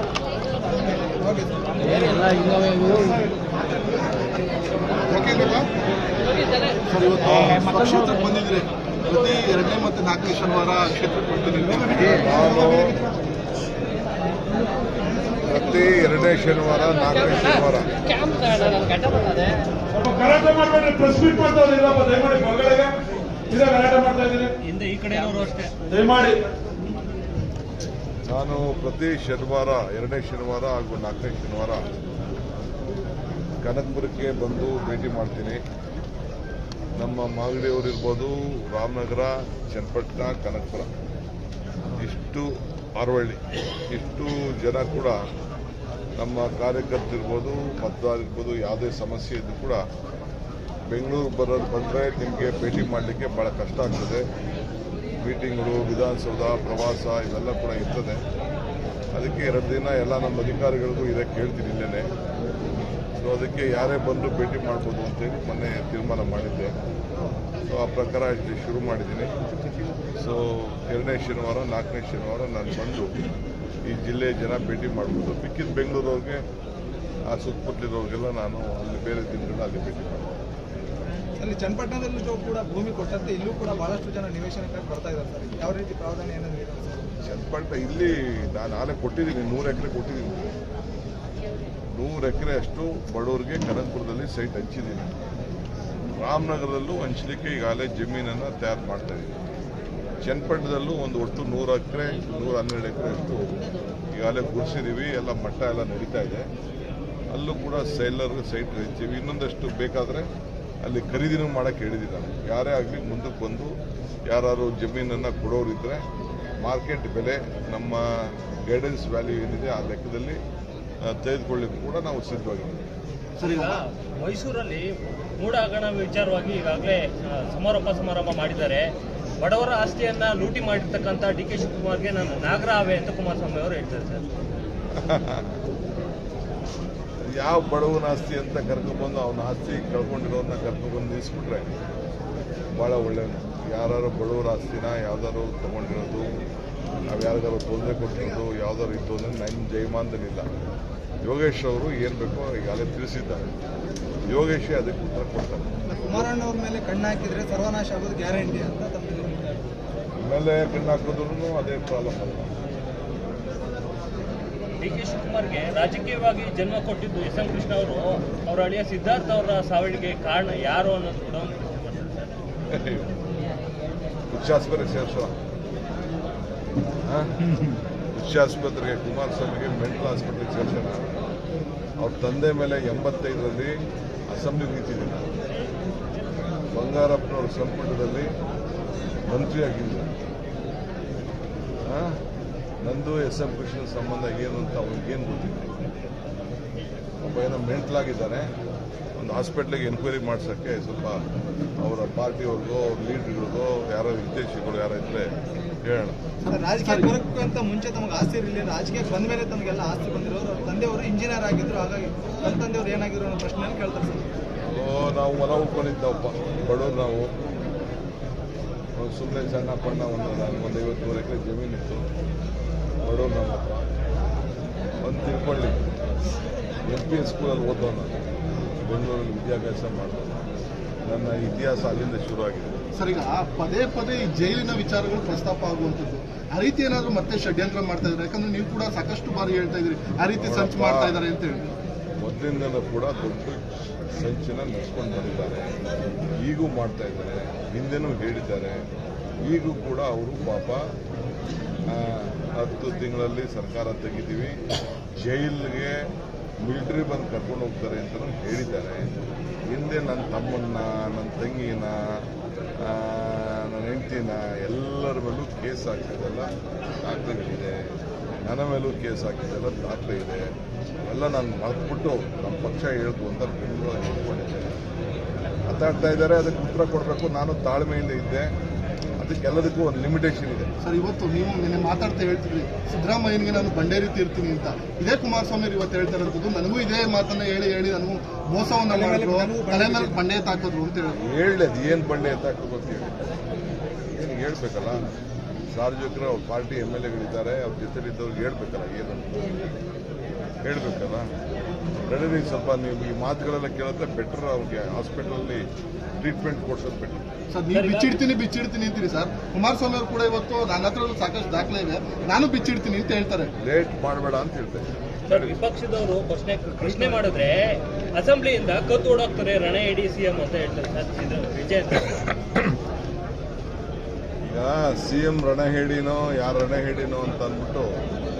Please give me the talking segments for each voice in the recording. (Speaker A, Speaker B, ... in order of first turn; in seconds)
Speaker A: 1.2-2.3, 81.4-87.1, 155.9-159.7, 206.5-214.3, 288.9-290.1
Speaker B: 5.1-5.7, 6.9-13.0, 123.4-123.8, 206.4-207.1, 232.9-241.7, 280.8-291.2, 307.5-313.5
Speaker C: 7.2-7.7, 11.9-12.9, 15.4-17.9, 28.3-31.9, 33.6-35.6, 37.0-40.9, 42.0-45.2, 46.2-49.8, 50.9-54.2, 55.2-58.2, 59.1-62.1, 63.2-66.7, 67.7-69.3, 70.2-73.2, 73.8-76.4, 77.3-80.3, 87.2-90.5, 91.9-95.1, 96.2-99.4, 100.2-103.6, 104.1-106.5, 107.3-110.3, 110.8-113.7, 114.3-116.0, 116.6-120.4, 121.0-122.8, 134.9-135.5, 137.3-141.7, 142.8-146.3, 147.0-150.5, 151.2-153.5, 154.3-156.2, 160.2-162.6, 172.7-173.1, 174.3-175.3, 177.0-177.3, 178.1-181.1, 182.0-183.7, 184.3-185.3, 186.7-188.3, 189.3-190.1, 191.8-192.2, 192.8-196.0, 197.2-198.5, 199.2-201.2, 201.8-206.2, 214.7-217.3, 219.0-222.0, 223.0-223.8, 225.0-225.8, 226.8-228.2, 228.8-230.4, 231.1-232.7, 240.3-241.1, 242.2-243.6, 244.1-245.8, 246.4-248.8, 249.5-250.8, 251.9-254.5, 255.2-256.0, 256.6-259.1, 259.7-262.3, 262.8-266.5, 267.0-267.8, 268.4-270.5, 271.1-274.7, 275.7-278.5, 279.2-280.7, 291.2-293.2, 294.1-295.0, 295.7-299.5, 300.6-301.2, 302.1-305.6, 306.2-307.2, 313.6-315.5, 324.4-328.0
Speaker D: 11.9-12.6, 19.9-23.0, 23.5-24.5, 25.9-26.4
Speaker E: 24.6-25.7, 123.4-124.8, 125.4-128.9, 129.4-134.2, 164.8-172.3, 307.7-308.2, 315.3-322.2